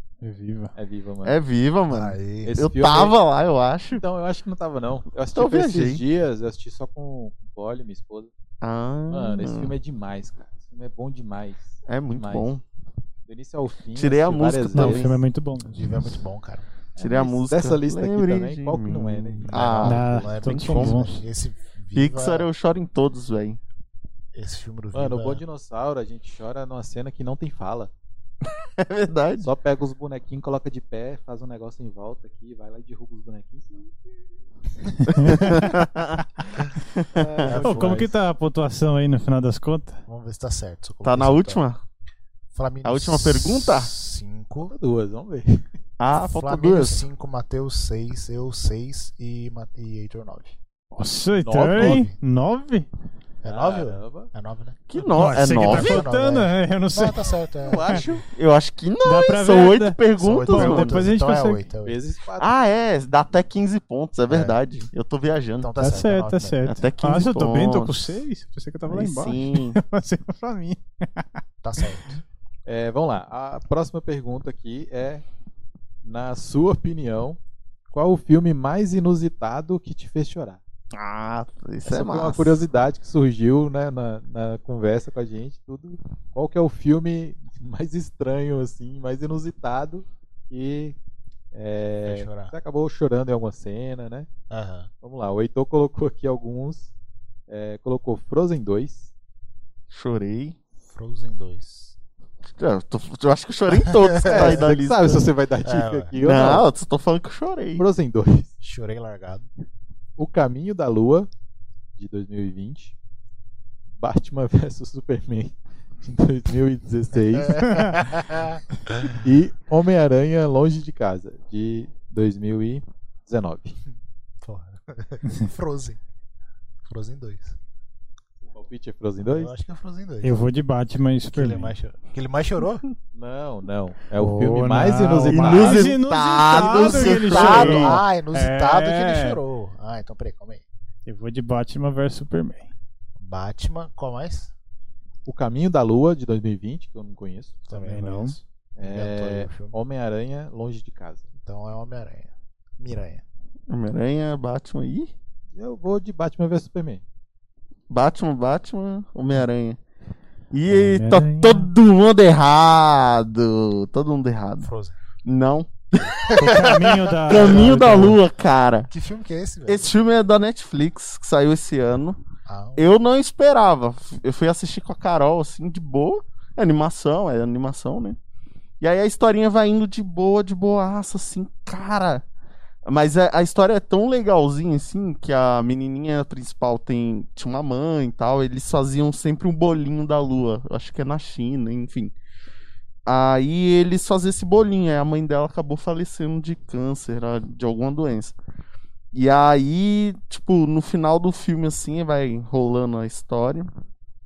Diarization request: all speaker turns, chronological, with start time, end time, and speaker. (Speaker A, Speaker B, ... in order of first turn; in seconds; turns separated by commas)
Speaker A: 0.2-0.7, Speaker B: 0.8-1.4, Speaker C: 1.2-4.0, Speaker D: 1.9-2.5, Speaker B: 2.4-3.2, Speaker B: 4.0-8.3, Speaker C: 5.3-6.0, Speaker C: 8.6-9.8, Speaker B: 9.1-12.5, Speaker C: 11.9-12.6, Speaker B: 13.3-15.1, Speaker C: 13.9-15.2, Speaker A: 14.7-16.2, Speaker D: 15.7-16.7, Speaker B: 16.9-19.9, Speaker C: 17.0-21.0, Speaker D: 19.5-22.5, Speaker A: 19.8-21.2, Speaker C: 21.9-23.6, Speaker D: 24.3-25.4, Speaker B: 24.9-27.9, Speaker C: 28.6-29.5, Speaker B: 29.4-33.9, Speaker C: 35.2-36.3, Speaker A: 35.2-35.7, Speaker C: 37.0-37.9, Speaker B: 37.4-38.1, Speaker D: 37.4-38.1, Speaker A: 37.6-40.0, Speaker D: 40.1-41.6, Speaker C: 41.0-41.8, Speaker D: 42.5-44.7, Speaker C: 42.8-43.9, Speaker B: 44.7-45.6, Speaker C: 46.0-47.1, Speaker D: 46.1-50.6, Speaker A: 50.9-52.9, Speaker B: 51.4-52.0, Speaker D: 51.8-52.1, Speaker D: 53.4-54.8, Speaker B: 53.4-54.3, Speaker C: 54.9-56.1, Speaker A: 55.0-57.4, Speaker D: 55.4-58.0, Speaker B: 57.6-58.2, Speaker C: 58.2-61.1, Speaker A: 59.0-61.7, Speaker D: 60.2-62.0, Speaker B: 61.8-62.5, Speaker C: 62.4-65.7, Speaker D: 64.3-64.6, Speaker D: 65.6-66.6, Speaker A: 65.8-71.4, Speaker C: 66.7-68.0, Speaker C: 68.9-69.8, Speaker D: 71.6-72.1, Speaker B: 72.7-75.2, Speaker B: 76.0-77.4, Speaker B: 77.9-80.6, Speaker C: 80.9-82.6, Speaker B: 81.8-91.0, Speaker B: 91.5-94.3, Speaker D: 92.0-92.5, Speaker D: 94.5-94.9, Speaker B: 95.0-96.9, Speaker B: 97.5-99.1, Speaker C: 99.9-100.6, Speaker D: 100.8-102.0, Speaker C: 102.5-105.3, Speaker D: 103.8-104.7, Speaker B: 104.2-106.7, Speaker D: 105.6-106.1, Speaker C: 106.2-107.8, Speaker B: 107.8-108.5, Speaker D: 108.6-109.5, Speaker B: 110.2-111.3, Speaker B: 112.0-113.0, Speaker B: 114.0-117.6, Speaker D: 117.3-119.2, Speaker A: 117.7-118.0, Speaker B: 119.2-123.8, Speaker D: 124.4-126.0, Speaker D: 126.8-127.6, Speaker B: 128.5-129.6, Speaker D: 129.3-130.5, Speaker A: 130.2-131.7, Speaker D: 131.3-132.9, Speaker B: 133.2-135.9, Speaker A: 134.2-139.4, Speaker C: 135.3-138.0, Speaker D: 136.5-140.6, Speaker A: 141.1-142.7, Speaker D: 143.2-144.5, Speaker B: 145.3-147.6, Speaker D: 147.7-149.8, Speaker A: 147.7-148.4, Speaker B: 148.8-151.3, Speaker D: 151.4-153.2, Speaker C: 153.7-155.1, Speaker B: 155.6-157.0, Speaker C: 157.9-159.8, Speaker C: 160.5-164.7, Speaker A: 160.7-161.7, Speaker D: 164.6-164.9, Speaker C: 165.2-166.8, Speaker D: 166.2-167.8, Speaker A: 166.4-168.2, Speaker C: 167.3-168.9, Speaker D: 168.9-169.9, Speaker C: 169.7-172.2, Speaker D: 172.5-172.9, Speaker C: 172.8-178.2, Speaker C: 178.8-182.3, Speaker C: 182.8-192.2, Speaker C: 193.1-198.4, Speaker C: 199.1-203.7